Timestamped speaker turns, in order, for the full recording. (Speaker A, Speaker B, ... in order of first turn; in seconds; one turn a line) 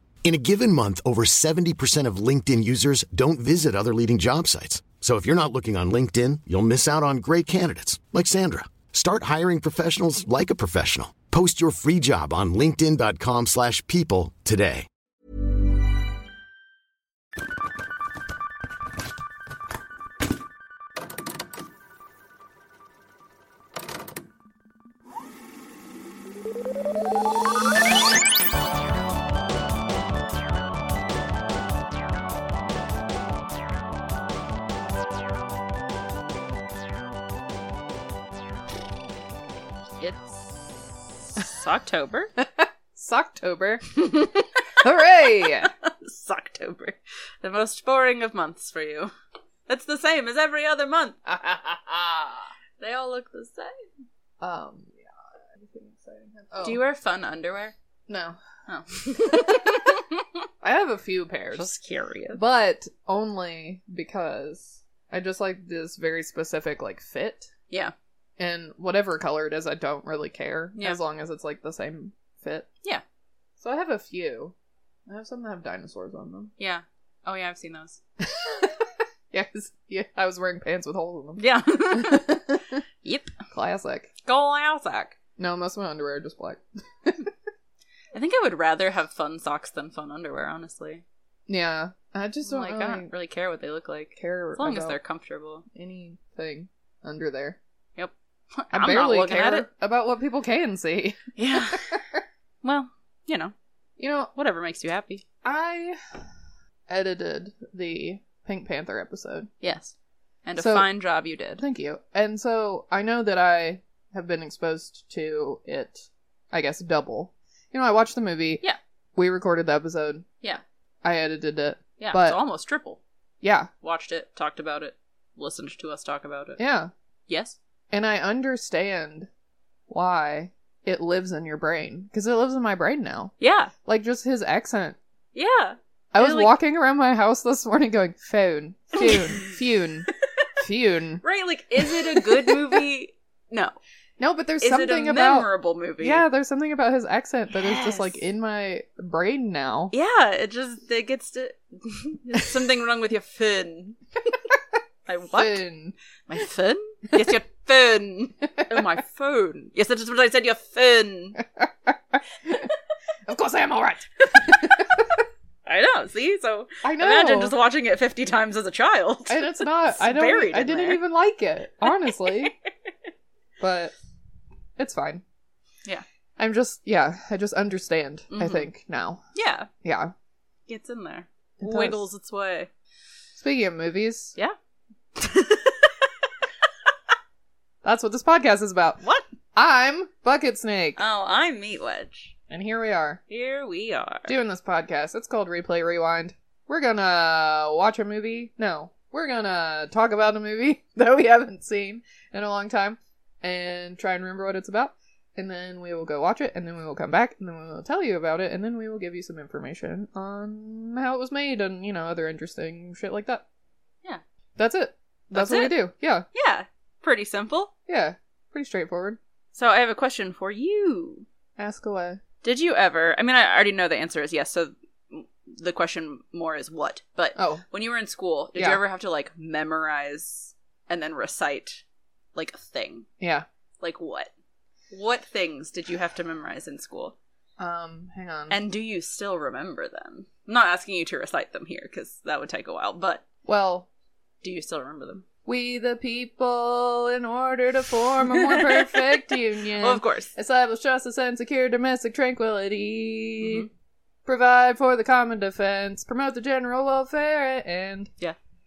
Speaker A: 0.2-14.9
Speaker B: 40.0-42.3
Speaker C: 42.4-44.3
Speaker B: 44.0-44.4
Speaker C: 44.8-45.7
Speaker B: 45.6-49.1
Speaker B: 49.7-51.2
Speaker C: 51.2-52.5
Speaker B: 52.8-53.8
Speaker C: 54.4-56.8
Speaker B: 56.6-57.7
Speaker C: 58.1-58.4
Speaker B: 58.7-60.3
Speaker C: 59.2-59.6
Speaker C: 60.6-61.7
Speaker B: 61.5-62.4
Speaker C: 62.3-67.5
Speaker C: 68.4-72.7
Speaker C: 73.6-74.5
Speaker C: 75.1-76.5
Speaker B: 76.6-78.0
Speaker C: 78.2-82.8
Speaker B: 81.4-82.4
Speaker B: 83.0-83.3
Speaker C: 83.5-84.1
Speaker B: 84.2-85.2
Speaker C: 85.4-87.3
Speaker B: 88.1-91.0
Speaker C: 91.5-93.1
Speaker B: 92.5-95.7
Speaker C: 94.2-95.0
Speaker C: 95.7-97.6
Speaker B: 98.0-99.7
Speaker C: 98.7-102.2
Speaker B: 101.4-102.0
Speaker B: 102.6-103.5
Speaker C: 104.0-104.3
Speaker B: 104.3-105.2
Speaker C: 105.4-106.2
Speaker C: 106.9-109.5
Speaker B: 109.6-109.9
Speaker B: 110.5-111.6
Speaker C: 110.6-110.9
Speaker C: 111.6-118.6
Speaker C: 119.2-120.2
Speaker C: 121.0-122.4
Speaker B: 122.0-123.0
Speaker C: 123.4-123.7
Speaker B: 123.8-126.6
Speaker C: 126.6-126.9
Speaker B: 127.3-127.6
Speaker C: 127.9-129.3
Speaker C: 129.9-133.3
Speaker B: 133.4-133.7
Speaker C: 133.9-135.0
Speaker B: 135.3-136.5
Speaker C: 136.1-140.1
Speaker B: 139.0-139.5
Speaker C: 140.6-141.2
Speaker B: 141.2-143.8
Speaker C: 141.8-142.8
Speaker C: 144.2-145.5
Speaker B: 144.6-146.2
Speaker C: 146.0-149.9
Speaker B: 147.5-148.2
Speaker B: 149.9-154.0
Speaker B: 155.1-155.6
Speaker C: 155.3-155.9
Speaker B: 156.3-161.4
Speaker C: 161.6-162.7
Speaker C: 163.3-165.2
Speaker B: 164.3-164.8
Speaker B: 165.7-171.0
Speaker C: 166.8-167.6
Speaker C: 169.3-172.5
Speaker C: 173.6-173.9
Speaker C: 174.8-175.2
Speaker C: 176.4-179.2
Speaker B: 178.3-178.7
Speaker B: 179.3-179.7
Speaker C: 179.8-180.1
Speaker B: 180.7-182.7
Speaker C: 181.6-182.0
Speaker C: 183.4-184.3
Speaker B: 185.2-185.9
Speaker C: 187.8-189.0
Speaker C: 189.6-191.0
Speaker B: 191.0-192.3
Speaker C: 192.5-193.2
Speaker B: 193.3-194.4
Speaker C: 194.3-213.4
Speaker C: 214.6-216.3
Speaker B: 215.3-215.8
Speaker B: 216.3-217.7
Speaker C: 217.9-219.2
Speaker B: 219.5-221.3
Speaker C: 221.6-222.2
Speaker B: 222.4-231.8
Speaker C: 227.4-227.6
Speaker C: 228.6-228.8
Speaker B: 232.3-233.1
Speaker C: 233.2-233.5
Speaker B: 233.8-234.3
Speaker B: 234.9-237.2
Speaker C: 237.6-238.6
Speaker B: 238.5-243.2
Speaker C: 243.4-243.9
Speaker B: 244.4-245.2
Speaker C: 245.5-253.7
Speaker B: 248.3-250.3
Speaker B: 253.4-253.7
Speaker C: 254.3-258.1